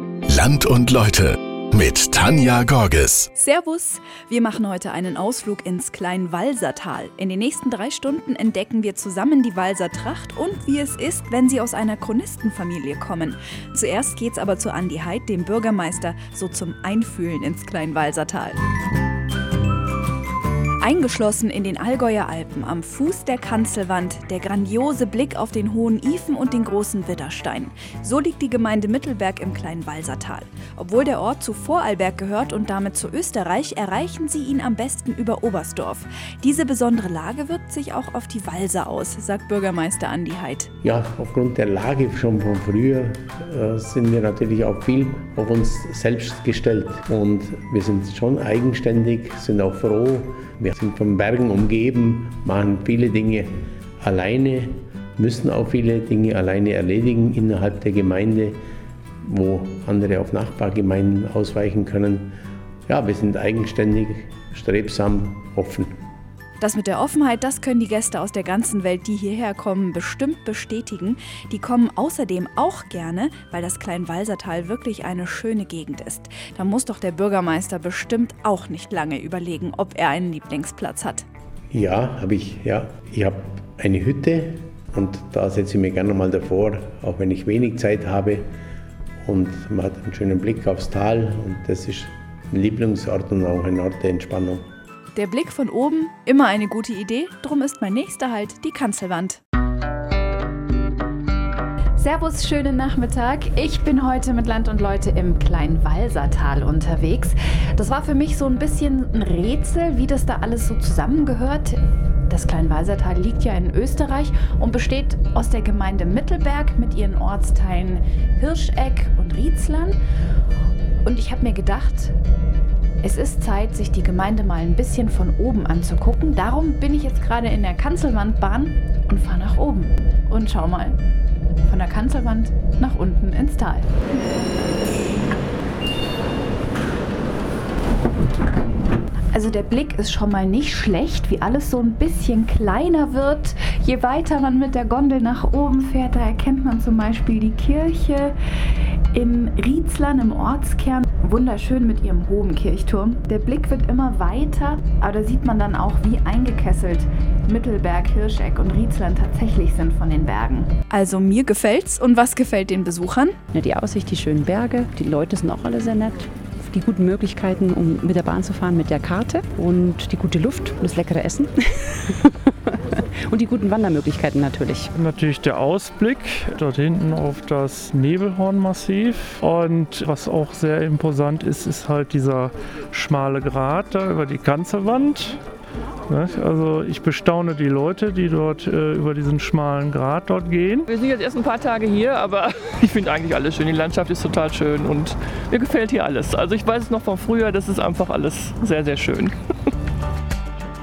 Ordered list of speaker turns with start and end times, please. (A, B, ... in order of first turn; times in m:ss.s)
0:00.3-0:03.3 A
0:03.4-0:18.6 B
0:20.8-0:40.7 B
0:40.8-0:58.6 C
0:59.2-1:02.3 C
1:02.9-1:05.9 C
1:06.6-1:21.2 B
1:21.7-1:28.4 C
1:29.2-1:34.6 C
1:35.2-1:39.4 B
1:42.0-2:00.0 B
2:01.0-2:02.1 B
2:03.0-2:11.0 B
2:11.6-2:14.0 B
2:19.3-2:28.4 B
2:29.1-2:43.4 B
2:43.5-2:52.3 D
2:53.3-2:54.9 D
2:55.0-3:05.4 E
3:06.1-3:10.9 E
3:10.9-3:19.3 F